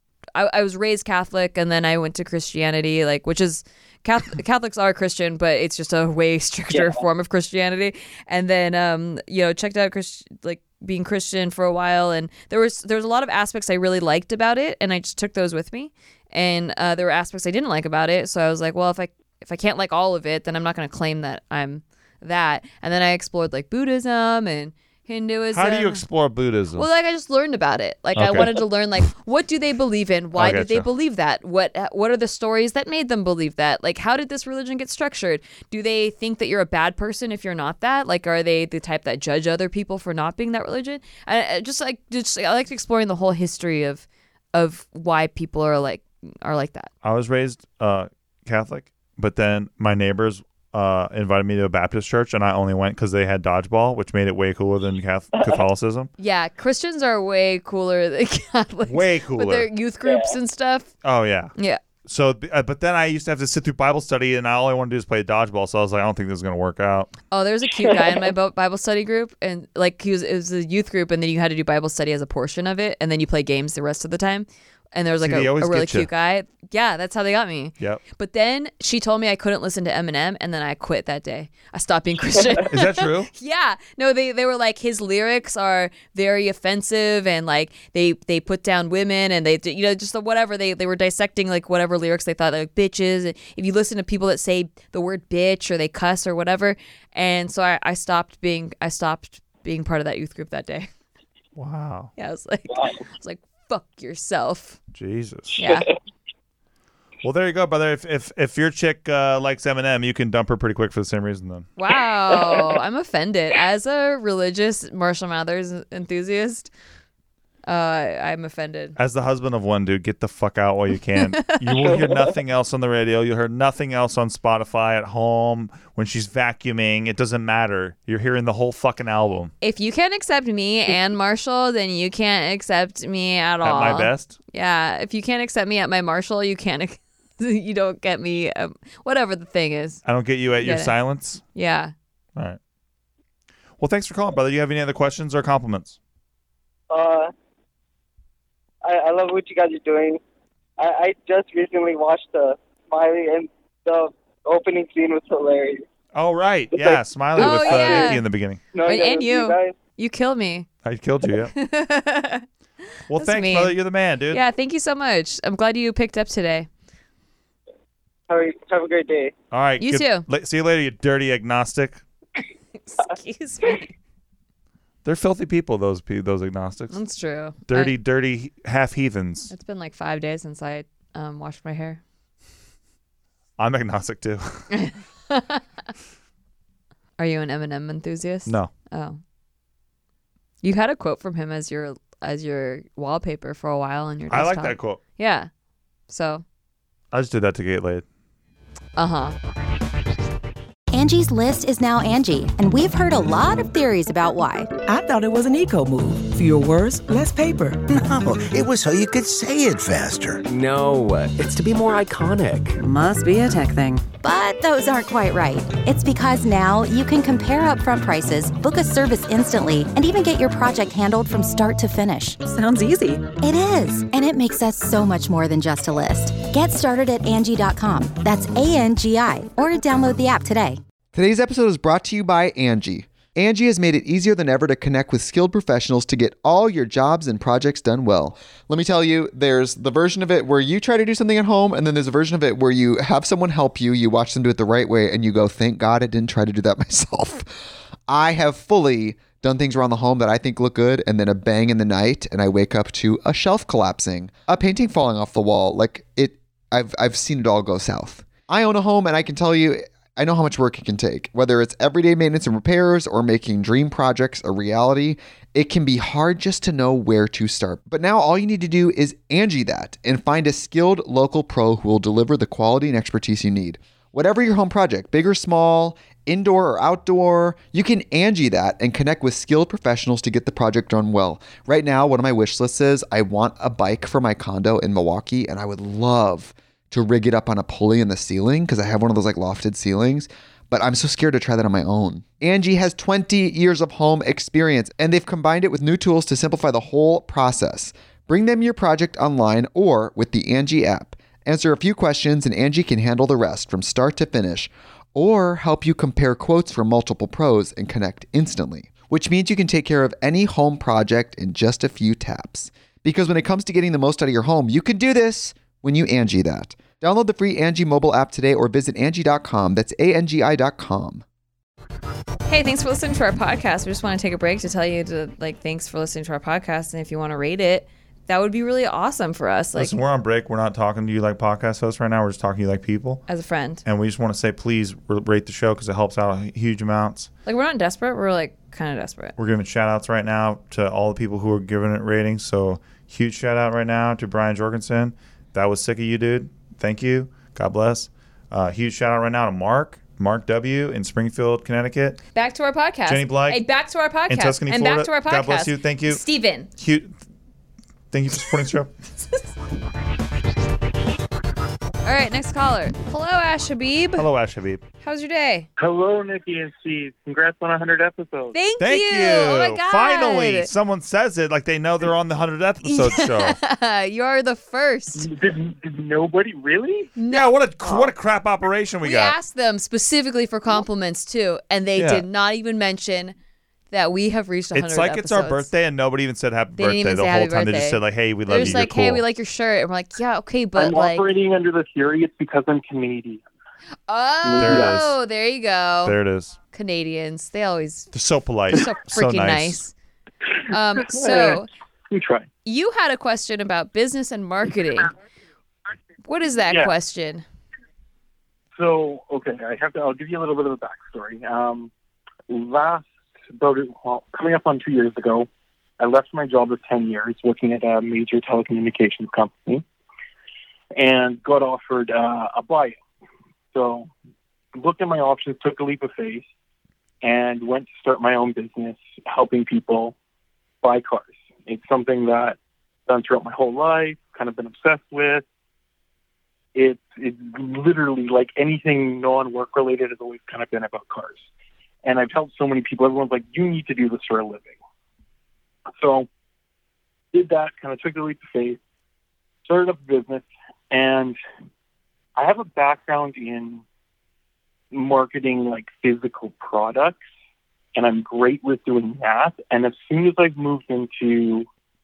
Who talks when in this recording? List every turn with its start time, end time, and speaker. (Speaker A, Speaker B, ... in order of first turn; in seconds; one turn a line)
Speaker A: 0.3-26.0
Speaker B: 6.7-7.0
Speaker C: 25.5-26.9
Speaker A: 26.8-46.9
Speaker C: 28.1-28.6
Speaker C: 30.4-30.9
Speaker C: 47.0-56.1
Speaker A: 56.2-60.9
Speaker C: 58.9-59.7
Speaker B: 60.0-60.4
Speaker C: 61.0-61.5
Speaker A: 61.6-61.8
Speaker C: 62.0-67.1
Speaker A: 67.3-100.9
Speaker B: 67.7-68.3
Speaker C: 75.2-76.1
Speaker C: 82.7-83.3
Speaker C: 101.6-102.1
Speaker A: 102.2-104.8
Speaker B: 102.7-103.0
Speaker C: 104.9-105.6
Speaker A: 105.6-105.9
Speaker C: 107.2-111.7
Speaker A: 111.8-116.7
Speaker A: 117.7-119.0
Speaker C: 119.0-129.5
Speaker A: 121.2-121.9
Speaker A: 129.6-140.0
Speaker C: 133.6-134.3
Speaker C: 140.0-141.4
Speaker A: 140.6-140.9
Speaker A: 141.5-141.9
Speaker C: 143.8-146.0
Speaker B: 146.9-147.3
Speaker B: 148.8-150.2
Speaker B: 150.8-155.8
Speaker C: 156.1-158.6
Speaker B: 156.7-159.8
Speaker A: 157.4-158.2
Speaker A: 158.8-160.7
Speaker C: 160.8-161.5
Speaker A: 161.4-162.4
Speaker C: 163.1-164.4
Speaker A: 163.1-163.8
Speaker A: 164.3-166.7
Speaker B: 168.3-169.3
Speaker C: 169.5-172.0
Speaker A: 169.8-170.3
Speaker A: 172.8-173.9
Speaker C: 175.0-177.0
Speaker A: 176.9-177.9
Speaker C: 177.7-179.5
Speaker A: 179.5-182.0
Speaker C: 183.6-184.7
Speaker A: 184.7-185.6
Speaker A: 187.2-189.2
Speaker C: 188.5-188.7
Speaker A: 190.6-195.5
Speaker C: 194.3-195.0
Speaker A: 196.1-196.4
Speaker C: 197.1-198.0
Speaker A: 199.0-199.3
Speaker D: 200.9-204.7
Speaker E: 204.8-207.7
Speaker F: 207.9-210.4
Speaker G: 210.5-212.8
Speaker E: 212.8-214.1
Speaker D: 214.2-222.4
Speaker E: 222.4-223.3
Speaker D: 223.4-230.8
Speaker H: 231.1-321.2
Speaker A: 322.5-329.9
Speaker C: 329.8-333.2
Speaker A: 333.3-333.8
Speaker C: 333.9-337.3
Speaker A: 337.5-339.4
Speaker C: 339.4-352.2
Speaker A: 352.3-356.7
Speaker C: 353.1-353.6
Speaker C: 354.3-356.2
Speaker C: 356.8-357.1
Speaker C: 358.1-358.9
Speaker A: 362.0-364.3
Speaker C: 364.2-364.8
Speaker A: 365.0-365.7
Speaker I: 365.8-368.6
Speaker A: 368.5-370.7
Speaker C: 368.8-373.6
Speaker A: 372.8-375.3
Speaker I: 375.1-377.1
Speaker A: 377.2-378.1
Speaker C: 377.3-379.4
Speaker A: 379.0-383.4
Speaker C: 382.0-382.2
Speaker A: 383.9-385.7
Speaker C: 384.7-389.2
Speaker A: 386.8-391.2
Speaker I: 390.8-393.4
Speaker A: 394.1-396.1
Speaker I: 394.4-395.0
Speaker C: 394.6-395.1
Speaker C: 396.0-396.6
Speaker A: 396.7-398.1
Speaker C: 398.1-399.8
Speaker A: 398.7-399.9
Speaker A: 400.7-401.7
Speaker I: 401.0-402.5
Speaker A: 402.6-405.1
Speaker A: 406.3-407.4
Speaker I: 408.8-411.9
Speaker I: 412.5-415.5
Speaker I: 416.0-419.8
Speaker I: 420.9-423.0
Speaker I: 423.7-424.1
Speaker I: 424.8-426.4
Speaker I: 427.2-430.1
Speaker I: 430.8-435.4
Speaker I: 436.7-441.5
Speaker I: 442.0-444.8
Speaker I: 446.0-446.3
Speaker I: 447.3-448.8
Speaker I: 449.6-451.4
Speaker I: 452.4-453.8
Speaker I: 454.9-457.2
Speaker I: 457.9-461.7